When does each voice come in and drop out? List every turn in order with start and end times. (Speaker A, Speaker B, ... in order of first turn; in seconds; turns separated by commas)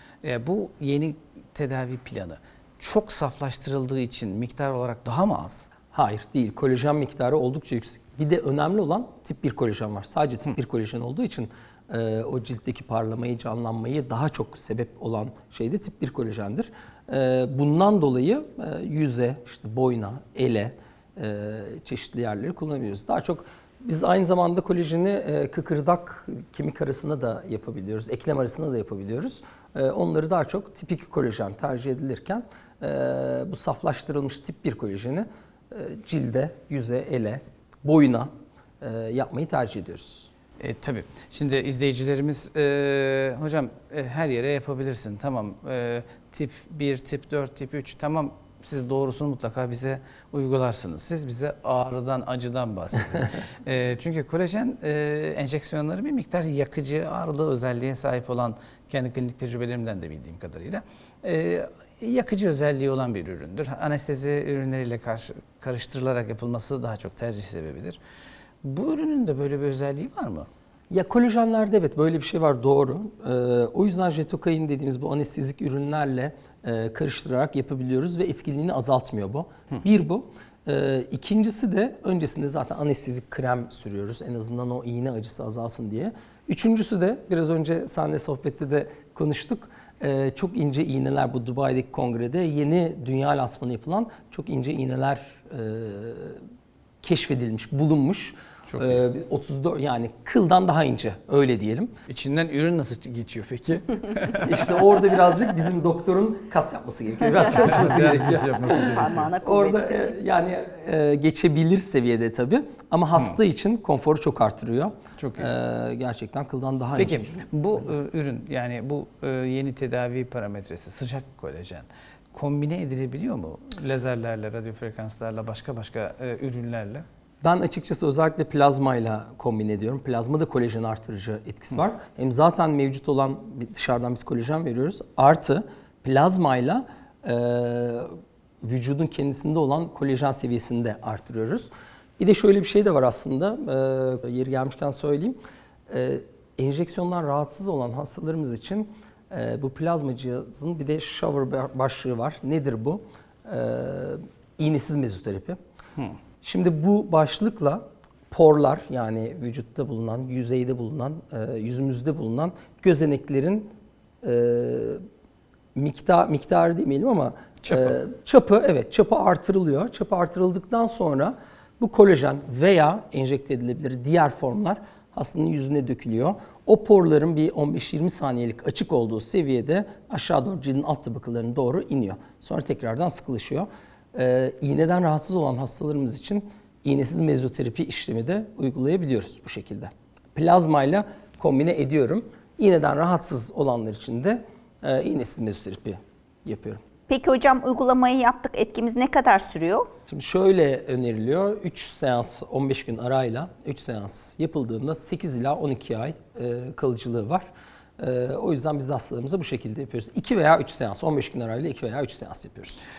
Speaker A: 0.2-5.7, Speaker B: 5.9-38.3, Speaker B: 38.8-40.3, Speaker A: 40.6-68.0, Speaker A: 68.6-70.5, Speaker B: 70.9-96.4, Speaker B: 97.0-101.9, Speaker A: 98.7-99.0, Speaker A: 102.1-104.8, Speaker B: 104.4-117.6, Speaker A: 107.4-109.3, Speaker C: 108.6-110.1, Speaker A: 115.2-115.5, Speaker A: 117.0-127.0, Speaker B: 127.4-138.1, Speaker B: 138.6-145.4, Speaker B: 145.9-155.6, Speaker B: 156.4-163.7, Speaker B: 164.2-165.0, Speaker B: 165.8-196.8, Speaker A: 167.6-168.0, Speaker C: 197.1-199.9, Speaker B: 200.1-207.5, Speaker B: 208.0-212.8